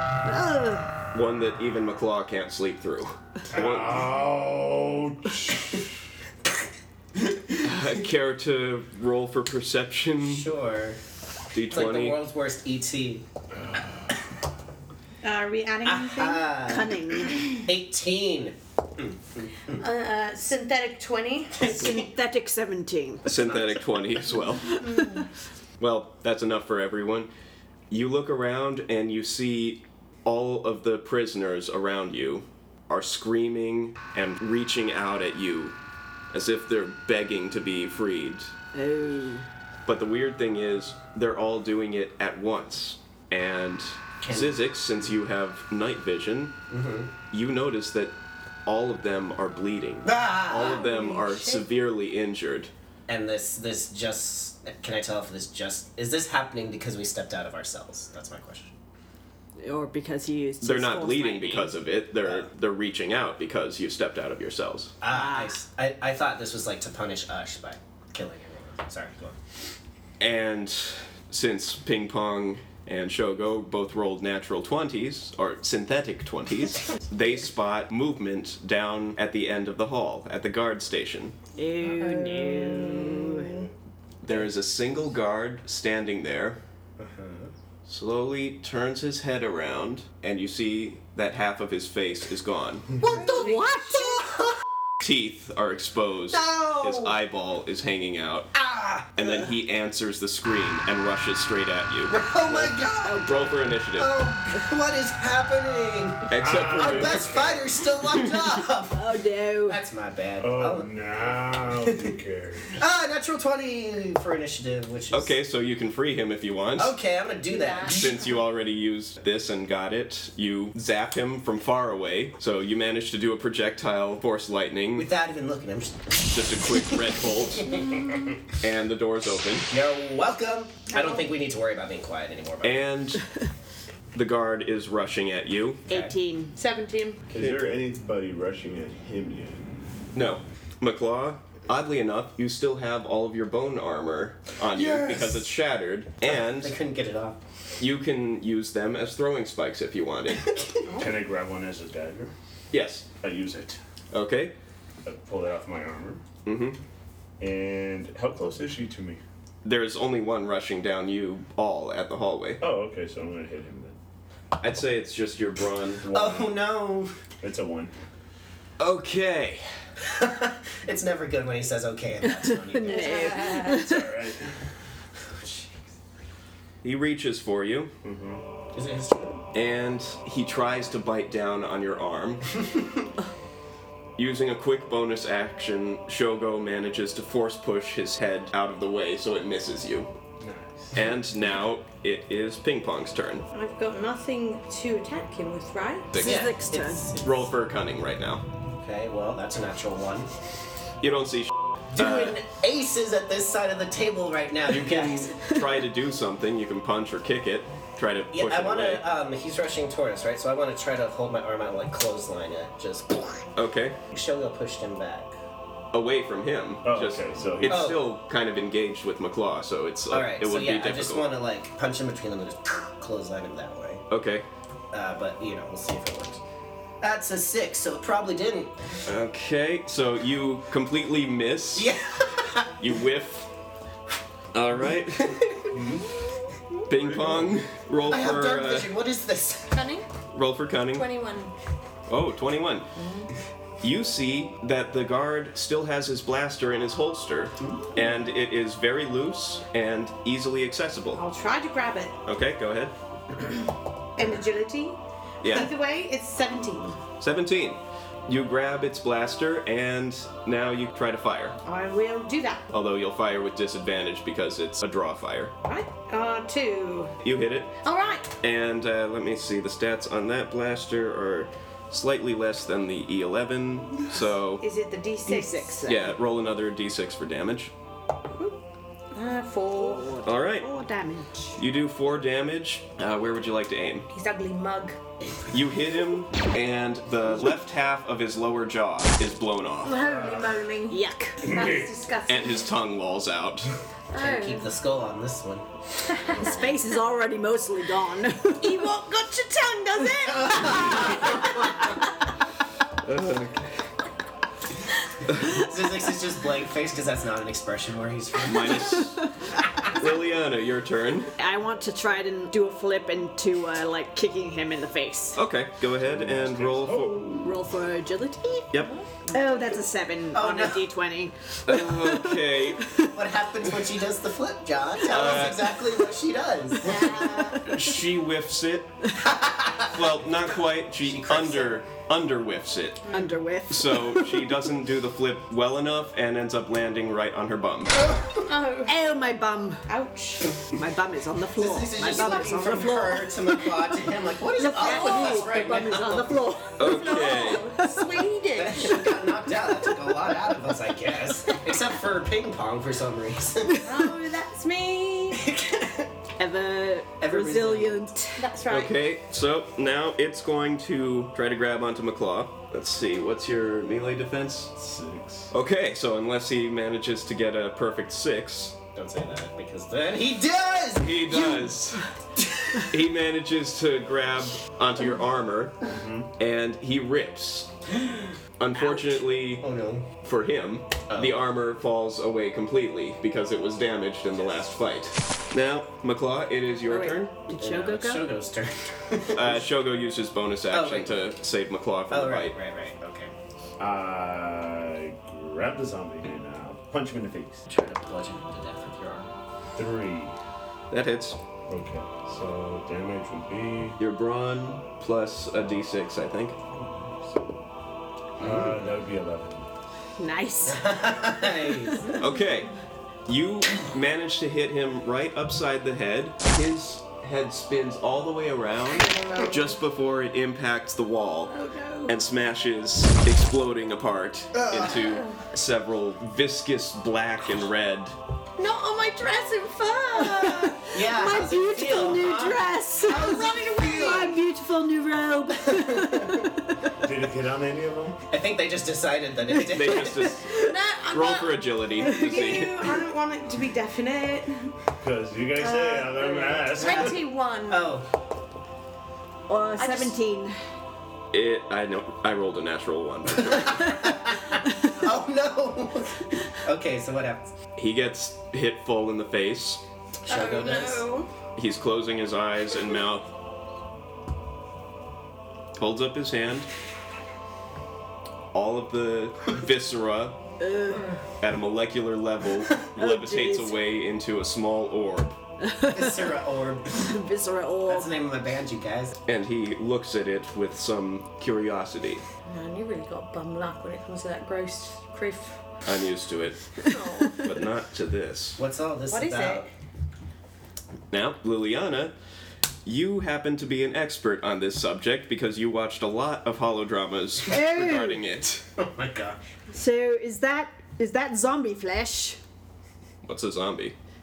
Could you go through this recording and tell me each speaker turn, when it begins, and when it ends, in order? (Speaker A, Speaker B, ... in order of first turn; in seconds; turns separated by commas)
Speaker A: 0.2-0.9, Speaker B: 1.1-4.1, Speaker C: 3.5-5.8, Speaker B: 7.6-10.5, Speaker D: 10.2-11.0, Speaker B: 11.5-12.2, Speaker D: 11.7-13.2, Speaker C: 13.5-14.2, Speaker E: 15.2-16.5, Speaker D: 15.8-19.8, Speaker A: 16.6-17.6, Speaker E: 19.8-21.7, Speaker D: 21.6-22.1, Speaker A: 21.6-23.2, Speaker D: 23.2-24.0, Speaker B: 23.2-24.8, Speaker A: 24.7-25.2, Speaker E: 24.8-25.3, Speaker B: 25.8-27.3, Speaker B: 27.9-35.8, Speaker B: 36.3-38.5, Speaker A: 38.7-39.5, Speaker B: 39.9-46.5, Speaker D: 44.2-44.6, Speaker D: 46.7-47.1, Speaker B: 47.3-48.1, Speaker B: 48.6-52.7, Speaker D: 50.0-50.9, Speaker E: 50.6-51.6, Speaker D: 53.1-58.7, Speaker A: 59.6-61.8, Speaker B: 60.6-64.9, Speaker D: 65.0-69.4, Speaker A: 65.1-65.5, Speaker B: 70.2-81.3, Speaker A: 81.5-83.6, Speaker E: 81.8-83.6, Speaker B: 84.2-86.6, Speaker D: 87.0-87.5, Speaker B: 87.8-92.9, Speaker D: 93.0-94.6, Speaker E: 93.0-94.2, Speaker A: 93.0-94.2, Speaker B: 95.0-98.5, Speaker D: 96.3-97.2, Speaker D: 98.5-99.4, Speaker B: 99.1-104.2, Speaker D: 102.1-109.0, Speaker B: 106.3-107.4, Speaker C: 106.3-107.7, Speaker A: 108.9-109.8, Speaker D: 109.7-110.9, Speaker C: 110.4-112.8, Speaker D: 111.9-112.1, Speaker D: 112.8-115.3, Speaker B: 115.1-117.0, Speaker D: 116.8-118.4, Speaker E: 117.5-118.2, Speaker B: 117.8-125.1, Speaker D: 124.9-128.0, Speaker B: 126.3-127.8, Speaker B: 128.6-129.7, Speaker D: 129.7-132.9, Speaker E: 130.9-131.2, Speaker B: 132.6-133.2, Speaker B: 134.1-135.8, Speaker D: 135.9-136.1, Speaker A: 135.9-136.5, Speaker E: 136.5-137.2, Speaker C: 137.3-139.6, Speaker B: 137.3-137.7, Speaker B: 140.1-146.8, Speaker D: 144.8-145.2, Speaker D: 146.2-147.4, Speaker B: 147.8-150.5, Speaker E: 150.9-151.1, Speaker C: 150.9-152.3, Speaker B: 152.7-153.1, Speaker C: 153.2-153.8, Speaker B: 154.1-154.5, Speaker C: 155.0-156.2, Speaker B: 156.4-156.8, Speaker C: 157.4-159.2, Speaker B: 159.6-162.6, Speaker C: 162.6-163.9, Speaker B: 164.6-166.1, Speaker C: 166.0-166.6, Speaker D: 166.1-167.1, Speaker C: 167.4-167.9, Speaker B: 168.8-169.7, Speaker D: 170.0-173.4, Speaker A: 172.4-174.1, Speaker E: 172.9-173.8, Speaker C: 173.6-174.6, Speaker D: 175.3-175.8, Speaker B: 176.8-177.9, Speaker C: 178.0-178.4, Speaker D: 178.7-179.4, Speaker B: 179.5-182.5, Speaker D: 182.7-183.0, Speaker B: 184.2-190.1, Speaker C: 190.4-191.0, Speaker B: 190.9-193.4, Speaker E: 193.5-196.2, Speaker B: 196.1-196.5, Speaker A: 196.1-197.1, Speaker D: 196.2-197.5, Speaker B: 197.2-198.4, Speaker D: 198.8-200.3, Speaker B: 201.0-202.4, Speaker D: 201.9-205.3, Speaker B: 204.7-209.0, Speaker D: 208.3-213.5, Speaker B: 213.6-214.0, Speaker D: 214.1-215.3, Speaker B: 215.9-221.2, Speaker C: 216.8-218.0, Speaker D: 217.6-218.0, Speaker D: 220.1-224.0, Speaker B: 224.1-224.4, Speaker D: 224.9-226.4, Speaker D: 227.0-228.8, Speaker B: 229.1-231.9, Speaker D: 231.7-232.7, Speaker B: 232.8-233.5, Speaker B: 234.5-235.5, Speaker D: 235.3-235.8, Speaker C: 235.7-236.1, Speaker B: 236.9-238.9, Speaker C: 236.9-237.7, Speaker D: 238.1-239.9, Speaker E: 239.7-240.1, Speaker B: 240.3-241.1, Speaker E: 240.9-241.5, Speaker B: 242.1-242.9, Speaker E: 242.9-243.3, Speaker B: 243.8-251.2, Speaker D: 247.6-247.9, Speaker E: 251.2-252.2, Speaker B: 252.2-252.9, Speaker E: 254.2-257.0, Speaker B: 255.4-255.7, Speaker B: 257.2-261.6, Speaker E: 261.6-262.7, Speaker B: 262.7-265.5, Speaker E: 265.6-267.1, Speaker B: 267.2-267.7, Speaker E: 267.8-268.3, Speaker B: 268.4-274.6, Speaker E: 274.6-275.9, Speaker A: 275.2-276.1, Speaker B: 275.8-277.7, Speaker E: 279.1-280.1, Speaker A: 279.8-281.6, Speaker B: 280.2-280.7, Speaker B: 281.6-284.1, Speaker E: 284.1-285.0, Speaker B: 285.5-290.0, Speaker E: 289.8-292.7, Speaker C: 289.9-290.5, Speaker A: 290.9-291.5, Speaker C: 291.4-291.9, Speaker B: 292.3-293.7, Speaker E: 294.1-294.7, Speaker D: 294.1-295.6, Speaker E: 296.1-296.7, Speaker A: 296.4-298.8, Speaker E: 298.6-301.8, Speaker D: 300.3-301.4, Speaker B: 303.0-303.8, Speaker D: 305.3-309.0, Speaker B: 308.4-309.2, Speaker B: 309.9-311.3, Speaker A: 311.4-315.4, Speaker B: 315.3-317.2, Speaker C: 316.0-317.6, Speaker A: 317.4-318.7, Speaker E: 318.8-319.2, Speaker A: 319.2-323.1, Speaker D: 320.3-320.9, Speaker B: 321.6-322.8, Speaker D: 323.1-327.2, Speaker B: 325.1-325.7, Speaker E: 326.8-327.7, Speaker A: 326.9-327.6, Speaker B: 327.6-328.9, Speaker D: 329.2-330.2, Speaker B: 329.9-333.0, Speaker D: 330.9-331.8, Speaker E: 333.0-333.3, Speaker A: 333.1-334.5, Speaker B: 333.7-338.1, Speaker E: 338.4-338.9, Speaker A: 338.9-339.9, Speaker E: 339.9-340.6, Speaker A: 340.7-343.9, Speaker D: 341.6-346.4, Speaker E: 342.1-342.9, Speaker A: 344.5-348.1, Speaker E: 344.8-345.9, Speaker B: 346.8-347.7, Speaker E: 346.8-349.1, Speaker D: 348.5-353.8, Speaker E: 353.8-355.4, Speaker D: 355.3-356.1, Speaker A: 356.4-358.4, Speaker D: 357.2-358.1, Speaker E: 358.4-359.0, Speaker B: 358.7-364.7, Speaker C: 364.7-365.5, Speaker B: 365.5-368.7, Speaker D: 368.9-371.2, Speaker B: 370.9-372.1, Speaker A: 371.3-371.7, Speaker B: 372.8-375.8, Speaker C: 375.9-376.3, Speaker B: 376.4-377.8, Speaker B: 378.6-379.6, Speaker D: 379.6-380.1, Speaker B: 380.2-387.3, Speaker D: 381.1-381.4, Speaker A: 386.9-388.2, Speaker D: 387.6-389.6, Speaker B: 389.3-392.5, Speaker D: 390.7-391.2, Speaker D: 392.1-393.3, Speaker C: 393.8-397.6, Speaker D: 397.7-399.3, Speaker C: 399.7-400.3, Speaker B: 400.9-401.4, Speaker C: 401.7-404.0, Speaker B: 404.0-406.6, Speaker C: 406.7-407.5, Speaker C: 408.4-409.7, Speaker D: 408.4-408.7, Speaker A: 410.2-411.0, Speaker D: 410.6-412.0, Speaker A: 411.6-412.1, Speaker B: 412.2-412.7, Speaker B: 413.2-421.5, Speaker E: 418.9-419.8, Speaker E: 421.5-422.1, Speaker B: 422.1-428.1, Speaker D: 424.5-425.0, Speaker E: 425.0-425.4, Speaker E: 428.6-430.9, Speaker A: 430.6-436.9, Speaker D: 430.8-434.3, Speaker E: 433.1-434.4, Speaker D: 435.6-436.5, Speaker C: 437.0-438.2, Speaker D: 438.3-440.4, Speaker B: 439.6-440.5, Speaker E: 440.5-444.7, Speaker B: 441.1-443.0, Speaker C: 445.0-447.2, Speaker E: 445.6-447.9, Speaker D: 446.7-447.1, Speaker D: 447.7-448.1, Speaker A: 449.5-450.6, Speaker E: 449.8-450.1, Speaker B: 451.3-453.8, Speaker D: 453.4-457.5, Speaker B: 457.8-459.8, Speaker D: 460.2-461.0, Speaker E: 460.3-461.3, Speaker B: 461.6-463.3, Speaker B: 465.7-466.7, Speaker B: 468.5-470.4, Speaker A: 470.6-471.1, Speaker E: 470.9-471.2, Speaker B: 471.4-475.4, Speaker A: 473.0-473.8, Speaker A: 475.6-476.3, Speaker D: 475.9-477.1, Speaker A: 476.9-478.1, Speaker D: 477.9-479.2, Speaker B: 479.3-482.2, Speaker E: 482.4-485.6, Speaker B: 485.8-488.6, Speaker E: 486.8-487.6, Speaker D: 488.6-489.7, Speaker E: 489.1-489.6, Speaker B: 491.1-492.1, Speaker B: 492.8-498.6, Speaker A: 497.5-498.2, Speaker D: 498.8-499.4, Speaker A: 499.7-502.4, Speaker B: 503.2-503.9